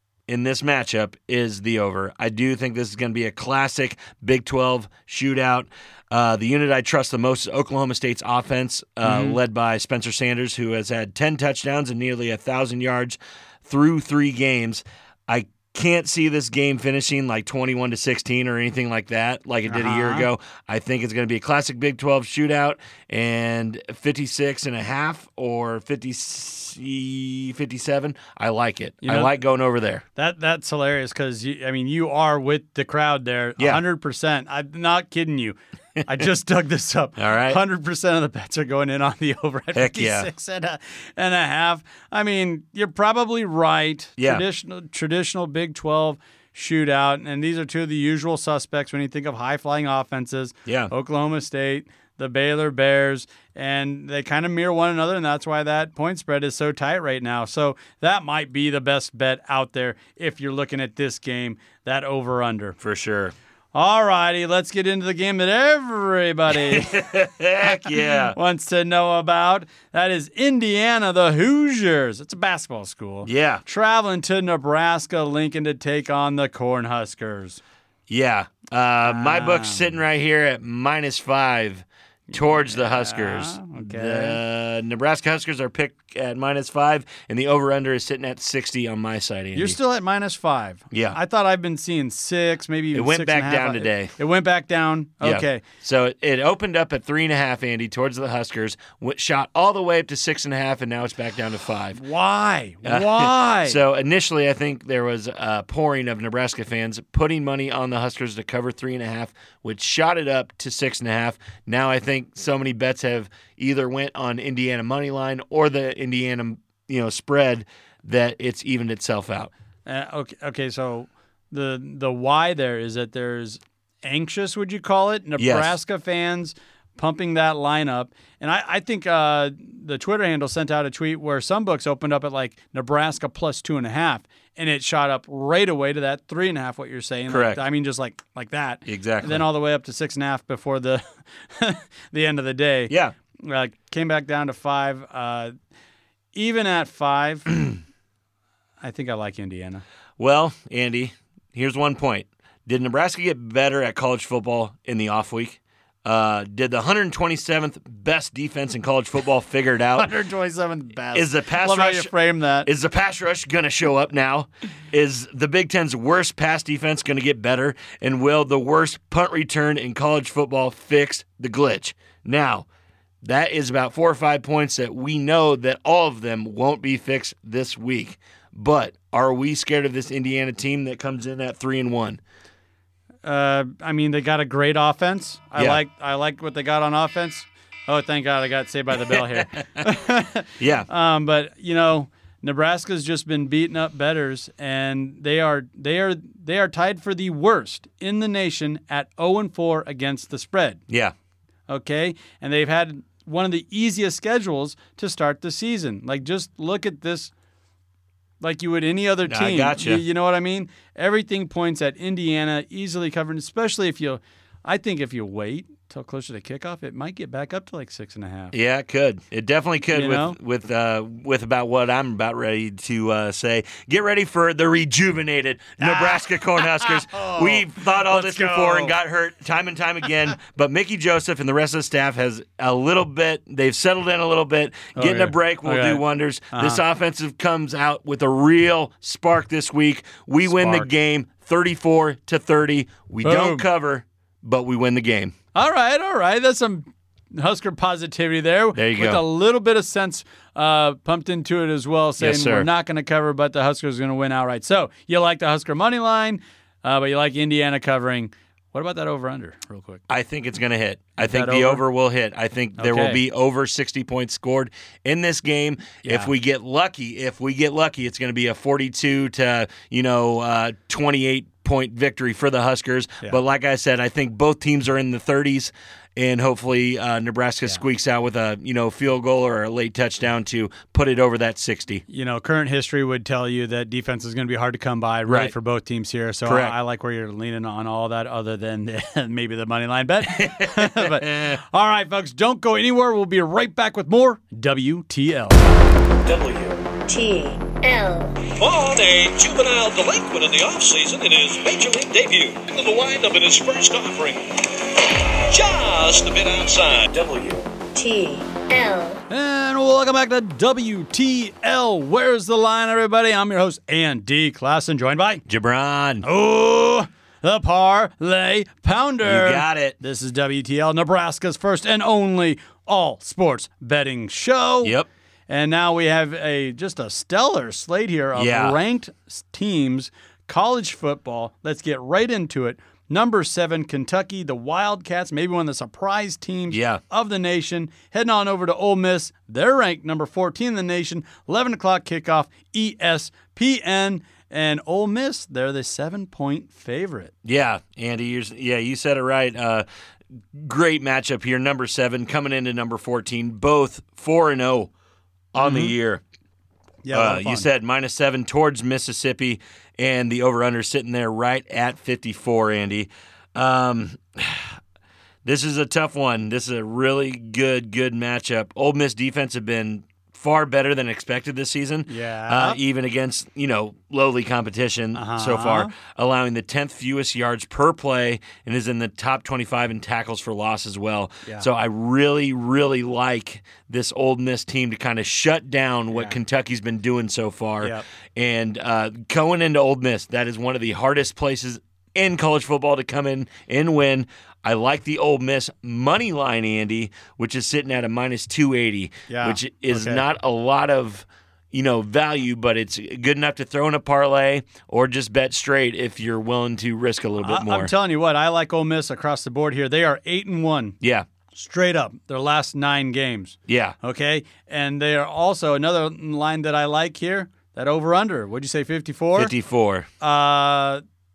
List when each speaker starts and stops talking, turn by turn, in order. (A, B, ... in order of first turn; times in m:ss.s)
0:00.3-0:30.0 A
0:09.0-0:09.4 B
0:19.7-0:20.3 B
0:29.0-0:29.3 B
0:30.2-1:02.8 B
0:37.2-0:37.6 A
0:39.7-0:40.3 A
0:44.2-0:44.4 A
0:50.6-0:50.9 A
1:02.8-1:03.3 A
1:03.7-1:07.1 B
1:06.5-1:08.4 A
1:07.6-1:17.6 B
1:13.2-1:13.6 A
1:18.1-1:29.8 A
1:19.0-1:19.9 B
1:22.3-1:24.4 B
1:29.5-1:35.6 B
1:30.9-1:31.2 A
1:32.9-1:34.1 A
1:35.2-1:42.0 A
1:41.9-1:43.8 B
1:42.8-1:59.5 A
1:59.8-2:25.5 B
2:05.4-2:05.7 A
2:17.3-2:17.6 A
2:18.8-2:19.4 A
2:22.9-2:23.1 A
2:26.3-2:27.5 B
2:28.8-2:29.8 B
2:30.2-2:40.1 A
2:40.0-2:42.7 B
2:41.1-2:42.1 A
2:42.6-2:52.6 A
2:53.2-3:02.2 A
3:03.2-3:20.8 B
3:09.0-3:09.9 A
3:10.6-3:10.9 A
3:20.9-3:21.1 A
3:21.7-3:27.3 B
3:28.4-3:38.5 B
3:29.2-3:30.0 A
3:38.5-4:05.3 A
3:39.9-3:40.4 B
3:45.8-3:49.0 B
3:55.0-3:56.8 B
4:00.5-4:00.9 B
4:03.2-4:03.6 B
4:05.5-4:20.0 B
4:08.7-4:09.2 A
4:12.2-4:12.7 A
4:20.1-4:42.0 A
4:21.2-4:21.8 B
4:22.8-4:23.2 B
4:26.0-4:26.3 B
4:42.1-4:55.7 B
4:45.3-4:45.5 A
4:46.4-4:46.7 A
4:50.3-4:51.6 A
4:56.2-4:56.8 C
4:57.1-4:58.4 D
4:58.5-5:07.6 C
5:07.9-5:09.2 D
5:09.3-5:15.4 B
5:15.4-5:16.2 A
5:16.2-5:25.0 B
5:19.2-5:20.0 A
5:25.5-5:47.3 B
5:28.3-5:28.8 A
5:36.7-5:37.0 A
5:47.4-5:49.8 A
5:50.5-5:54.9 A
5:55.5-5:56.2 A
5:55.6-5:55.9 B
5:57.0-5:57.7 B
5:57.1-6:04.8 A
6:05.4-6:47.9 A
6:12.1-6:12.8 B
6:15.1-6:15.9 B
6:39.3-6:40.2 B
6:47.4-6:51.0 B
6:51.0-6:51.3 A
6:51.5-6:59.5 B
6:53.7-6:54.0 A
6:59.4-7:00.1 A
7:00.2-7:01.0 B